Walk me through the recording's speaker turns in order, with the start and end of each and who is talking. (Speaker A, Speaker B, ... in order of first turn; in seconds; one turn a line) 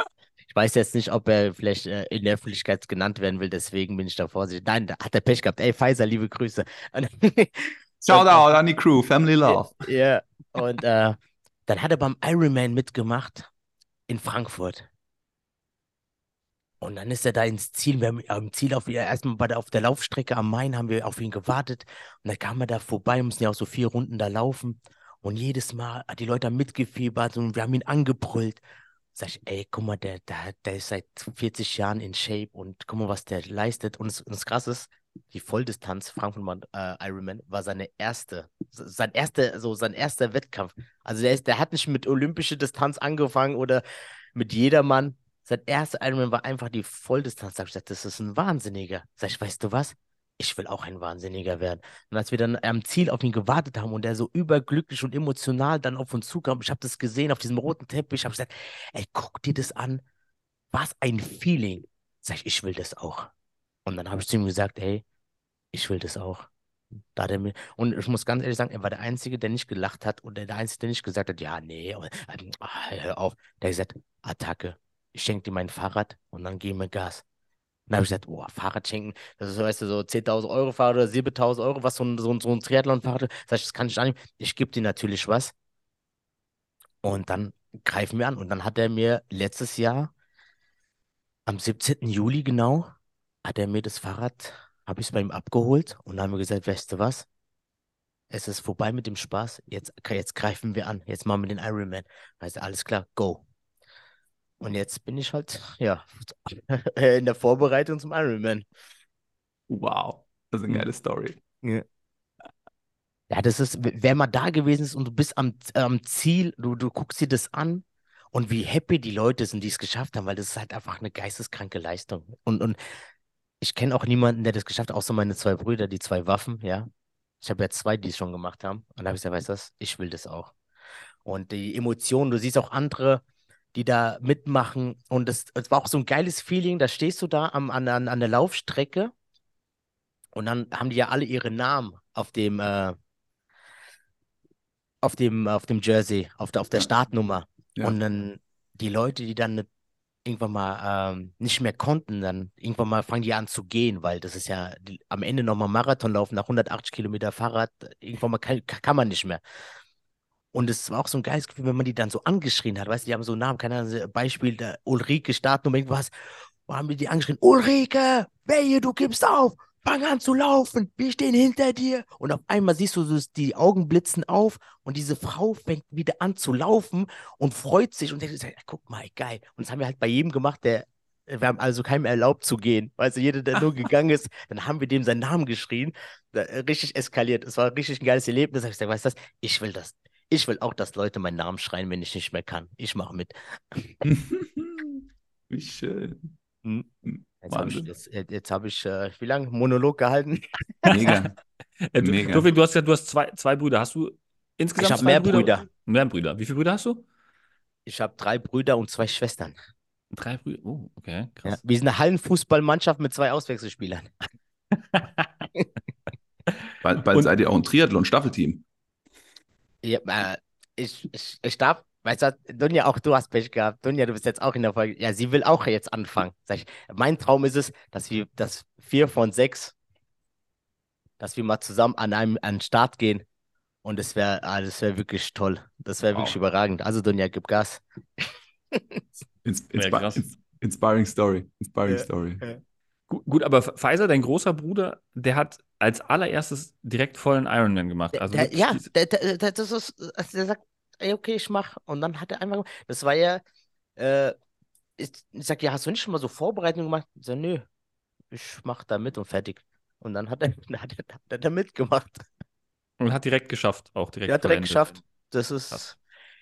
Speaker A: 0.5-8.5
Speaker B: 8.0-9.8
Speaker A: 9.5-11.2
Speaker A: 11.7-13.5
Speaker A: 14.1-14.8
Speaker A: 16.8-28.6
Speaker A: 29.1-43.8
Speaker A: 44.3-60.0
Speaker A: 60.7-63.3
Speaker A: 63.9-65.0
Speaker A: 65.7-66.5
Speaker A: 67.2-77.2
Speaker A: 77.9-85.5
Speaker A: 87.0-90.1
Speaker A: 91.5-92.9
Speaker A: 93.4-97.3
Speaker A: 98.3-103.4
Speaker A: 104.6-108.6
Speaker B: 109.7-111.4
Speaker A: 113.3-122.8
Speaker A: 123.6-126.9
Speaker A: 127.4-130.5
Speaker A: 131.2-133.2
Speaker A: 133.7-139.1
Speaker A: 140.3-142.9
Speaker A: 145.0-149.7
Speaker A: 150.2-159.4
Speaker A: 160.5-166.1
Speaker A: 166.7-194.0
Speaker B: 194.0-196.3
Speaker A: 196.6-196.9
Speaker B: 197.0-197.9
Speaker A: 197.4-200.9
Speaker B: 200.9-201.3
Speaker C: 200.9-201.3
Speaker C: 201.9-207.0
Speaker B: 202.0-202.5
Speaker A: 204.8-205.7
Speaker A: 207.8-209.5
Speaker C: 210.1-211.6
Speaker A: 211.4-214.1
Speaker C: 214.9-215.5
Speaker B: 216.8-218.6
Speaker A: 219.8-229.7
Speaker A: 231.2-233.2
Speaker A: 233.8-239.0
Speaker B: 239.4-242.4
Speaker C: 239.8-240.2
Speaker A: 241.9-242.6
Speaker C: 243.1-248.9
Speaker A: 248.1-253.4
Speaker A: 254.0-254.3
Speaker A: 255.0-257.6
Speaker A: 258.3-262.2
Speaker C: 263.0-264.9
Speaker A: 264.3-265.9